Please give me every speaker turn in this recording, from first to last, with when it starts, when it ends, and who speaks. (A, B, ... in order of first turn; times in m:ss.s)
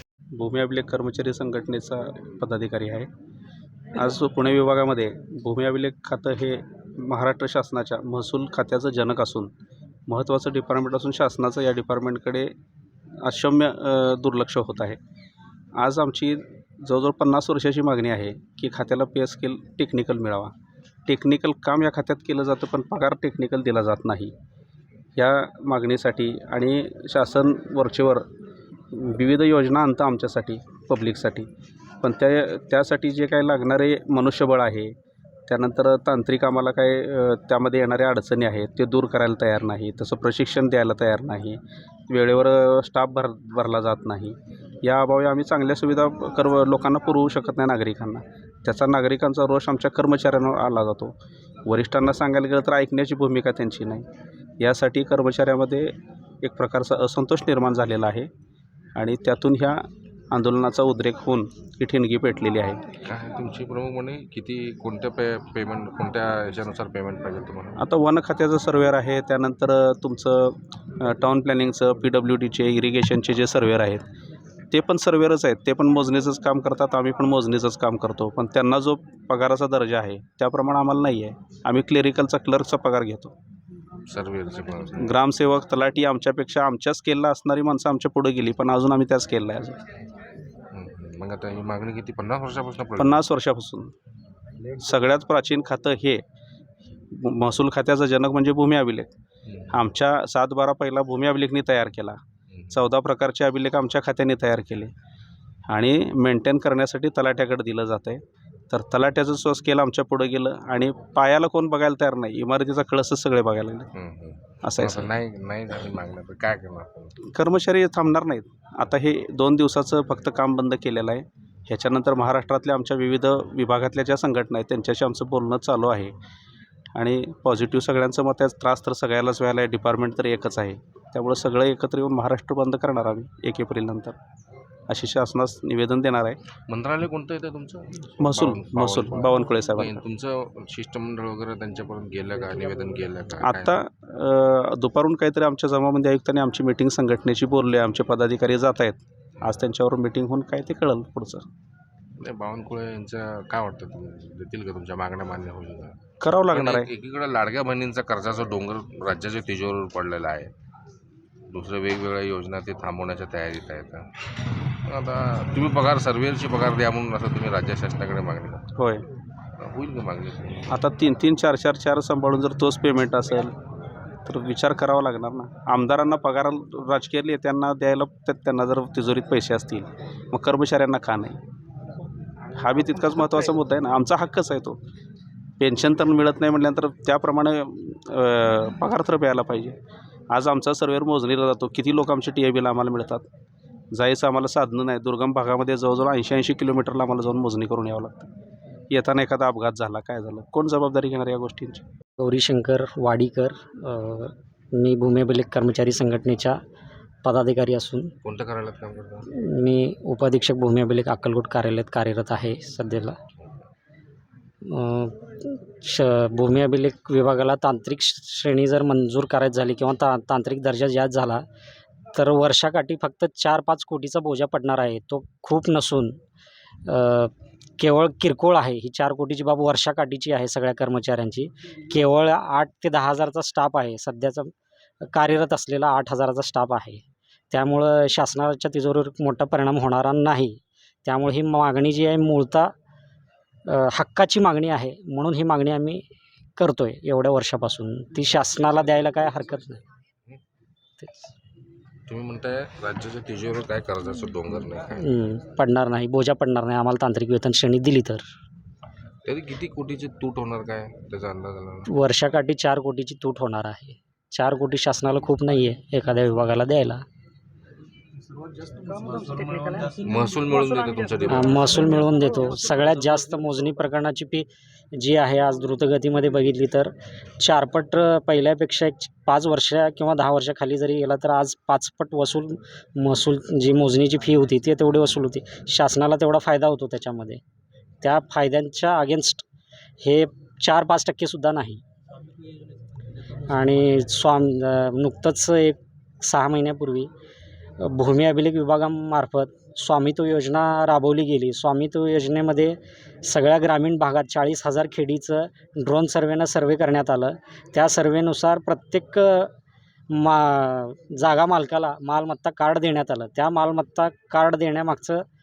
0:00.4-0:03.1 A
0:04.0-0:09.5 A
0:10.1-0:12.5 A
0:13.2-0:15.0 A
0:15.8-0:20.5 A
0:21.1-0:24.3 A
0:25.2-0:28.2 A
0:28.9-0:31.5 A
0:32.0-0:34.9 A
0:35.5-0:54.1 A
0:54.6-0:58.3 A
0:59.0-1:02.9 A
1:03.0-1:07.8 B
1:07.8-1:14.0 A
1:14.7-1:23.3 A
1:24.1-1:25.2 B
1:25.0-1:29.8 A
1:30.7-1:33.2 B
1:33.0-1:33.9 A
1:34.8-1:36.2 A
1:37.1-1:39.1 A
1:39.5-1:39.8 B
1:39.7-1:44.9 A
1:42.5-1:42.8 B
1:45.7-1:53.9 A
1:54.0-1:57.2 B
1:54.6-1:55.1 A
1:57.3-2:06.1 A
2:07.0-2:14.2 A
2:14.9-2:16.4 A
2:16.7-2:23.8 B
2:18.2-2:20.0 A
2:23.4-2:31.5 A
2:32.2-2:36.0 B
2:36.2-2:36.9 A
2:36.5-2:40.5 B
2:41.5-2:44.1 B
2:44.9-2:48.7 B
2:48.8-2:49.0 A
2:49.6-2:50.8 B
2:50.7-2:53.5 A
2:54.3-3:01.4 A
3:02.6-3:04.8 A
3:05.6-3:09.8 A
3:10.3-3:13.3 A
3:13.9-3:18.3 A
3:18.9-3:21.8 A
3:22.2-3:26.6 C
3:27.2-3:28.1 C
3:28.2-3:29.3 B
3:29.3-3:33.2 C
3:34.6-3:41.4 C
3:42.1-3:46.2 C
3:46.8-4:02.7 C
4:03.7-4:06.0 C
4:06.6-4:09.8 C
4:11.0-4:11.3 C
4:12.1-4:15.1 B
4:15.0-4:18.3 C
4:19.2-4:21.9 B
4:21.9-4:27.0 C
4:29.9-4:32.2 B
4:31.3-4:47.4 C
4:48.0-4:49.4 C
4:50.0-4:51.8 C
4:53.5-4:57.1 C
4:57.8-5:09.5 C
5:10.1-5:15.2 C